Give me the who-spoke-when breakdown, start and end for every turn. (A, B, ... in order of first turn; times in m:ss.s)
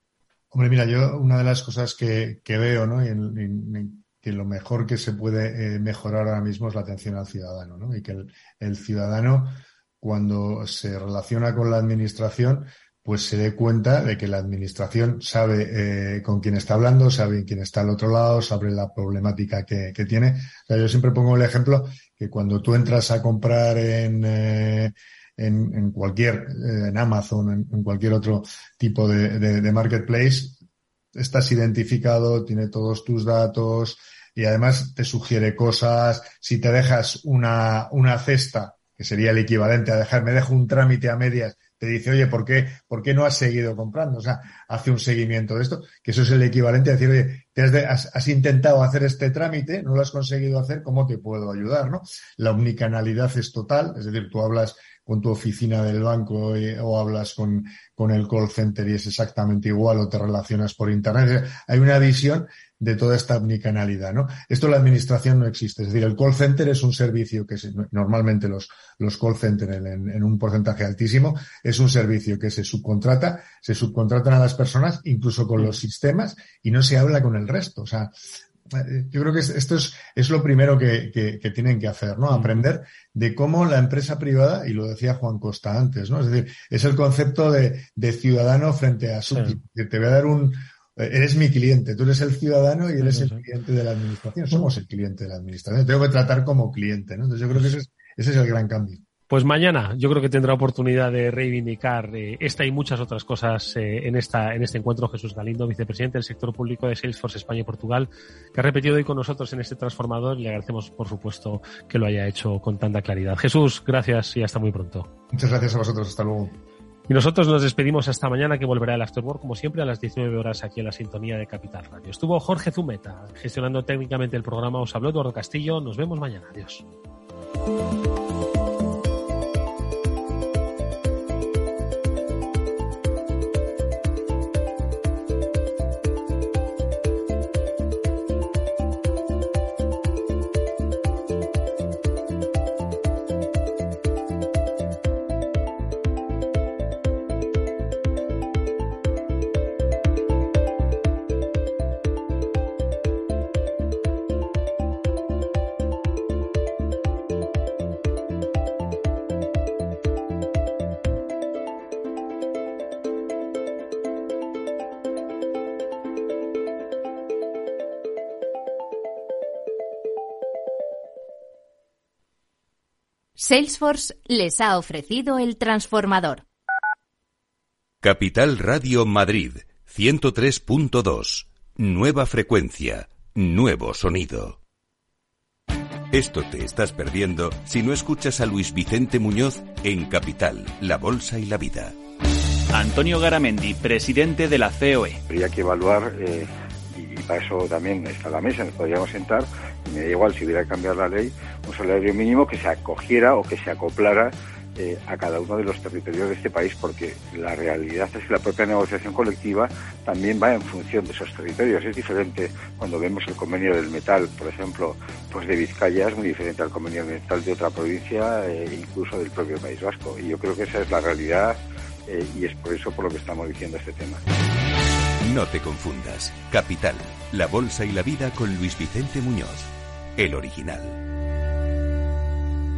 0:00.5-0:30.6 A
0:31.2-1:18.1 A
1:18.7-1:39.0 A
1:22.3-1:22.7 B
1:29.3-1:29.6 B
1:33.0-1:33.4 B
1:39.3-1:55.1 B
1:55.3-1:56.6 A
1:57.1-2:06.8 B
2:53.4-2:56.4 C
2:58.0-3:04.6 D
3:06.1-3:12.0 D
3:12.7-3:15.2 E
3:15.3-3:44.2 F
3:45.2-3:51.0 D